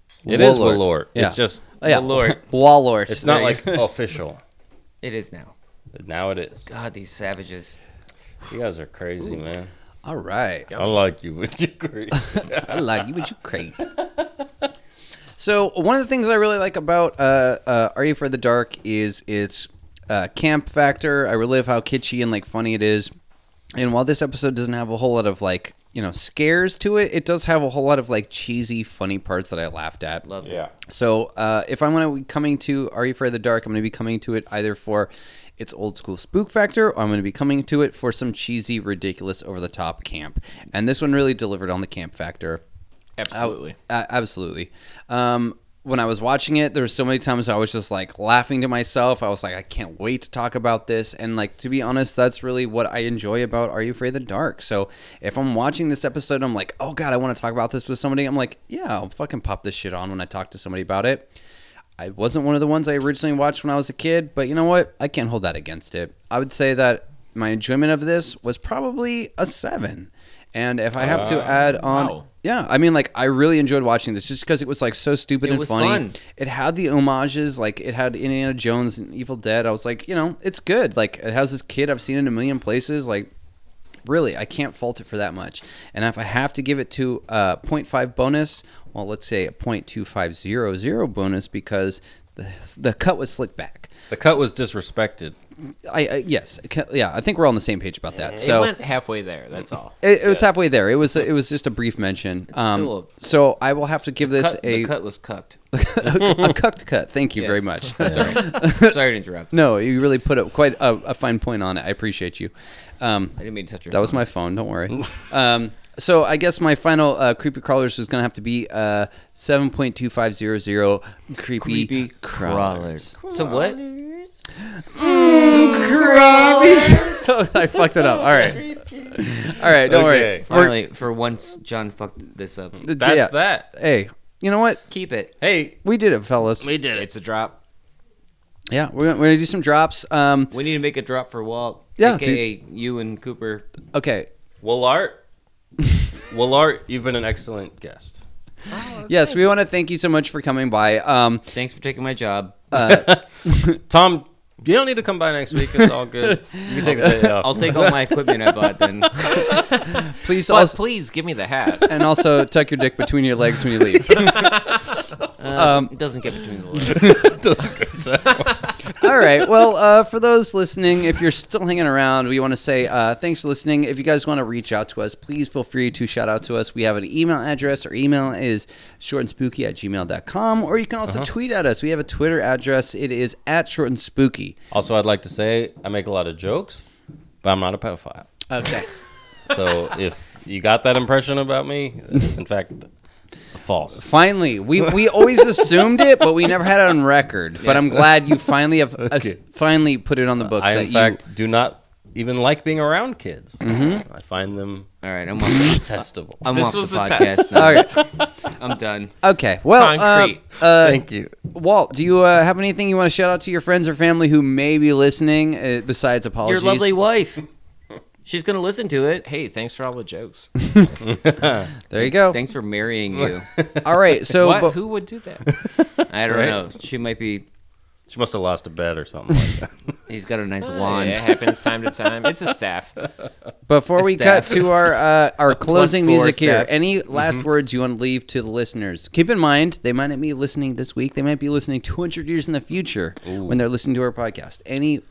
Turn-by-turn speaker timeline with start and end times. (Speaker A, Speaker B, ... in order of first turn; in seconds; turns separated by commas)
Speaker A: 0.3-1.6, Speaker B: 0.3-3.8, Speaker C: 0.3-0.7, Speaker C: 1.8-2.4, Speaker A: 3.1-4.4, Speaker C: 5.0-5.5, Speaker A: 5.9-6.7, Speaker C: 6.7-7.8, Speaker A: 8.5-9.7, Speaker B: 10.0-10.7, Speaker A: 10.8-13.1, Speaker B: 12.1-13.8, Speaker A: 13.9-14.7, Speaker B: 15.3-23.1, Speaker B: 23.7-30.3, Speaker C: 30.2-30.6, Speaker A: 30.4-30.7, Speaker B: 30.8-42.6, Speaker D: 43.2-43.7, Speaker B: 43.3-61.3, Speaker B: 62.0-83.3, Speaker A: 71.0-71.5, Speaker D: 71.0-72.3, Speaker C: 75.4-76.1, Speaker B: 84.0-94.0, Speaker A: 94.1-95.3, Speaker B: 95.8-98.7, Speaker D: 98.4-100.0, Speaker B: 100.0-104.9, Speaker C: 102.5-103.1, Speaker C: 104.2-105.6, Speaker B: 105.7-109.0, Speaker C: 107.3-109.5, Speaker A: 108.0-108.4, Speaker B: 109.5-113.4, Speaker C: 113.4-114.2, Speaker B: 113.9-123.0, Speaker C: 121.6-123.8, Speaker A: 123.2-124.3, Speaker B: 124.8-130.7, Speaker C: 125.0-127.2, Speaker A: 128.4-130.5, Speaker C: 130.4-132.8, Speaker B: 132.8-134.8, Speaker A: 132.8-133.6, Speaker C: 134.9-135.3, Speaker A: 135.4-135.8, Speaker B: 135.8-136.7, Speaker A: 136.6-137.1, Speaker D: 136.9-137.6, Speaker B: 138.7-140.5, Speaker C: 140.5-143.7, Speaker B: 142.0-142.4, Speaker B: 143.9-144.3, Speaker A: 144.6-145.2, Speaker A: 146.3-148.2, Speaker D: 148.7-149.4, Speaker B: 149.1-151.5, Speaker C: 151.5-152.7, Speaker B: 152.7-153.8, Speaker A: 152.8-158.6, Speaker B: 155.6-157.4, Speaker C: 156.6-159.2, Speaker D: 159.3-161.9, Speaker B: 160.1-160.8, Speaker B: 161.8-164.7, Speaker D: 164.1-164.8, Speaker C: 165.4-167.2, Speaker B: 165.5-165.9, Speaker A: 166.9-168.9, Speaker B: 168.9-184.6, Speaker A: 184.7-186.9, Speaker A: 187.4-188.3, Speaker B: 188.5-188.9, Speaker A: 189.5-192.9, Speaker A: 193.5-194.0, Speaker B: 194.0-201.2, Speaker A: 194.8-195.9, Speaker A: 197.7-198.0, Speaker A: 199.0-199.3, Speaker A: 200.4-204.9, Speaker B: 203.6-204.0, Speaker C: 205.0-205.8, Speaker A: 205.5-206.4, Speaker C: 206.4-209.1, Speaker D: 206.4-207.9, Speaker B: 207.5-208.0, Speaker A: 208.0-208.2, Speaker B: 209.2-216.9, Speaker D: 209.7-210.4, Speaker A: 210.8-211.4, Speaker C: 216.4-217.4, Speaker C: 218.2-219.2, Speaker D: 219.2-220.8, Speaker A: 221.0-221.7, Speaker B: 221.9-222.4, Speaker C: 222.0-223.5, Speaker A: 223.6-223.9, Speaker B: 223.8-224.8, Speaker D: 224.3-225.5, Speaker A: 225.6-226.6, Speaker C: 226.1-227.4, Speaker A: 228.1-229.9, Speaker C: 230.1-231.3, Speaker D: 230.6-232.9, Speaker B: 233.7-245.0, Speaker C: 234.0-236.7, Speaker A: 243.2-243.6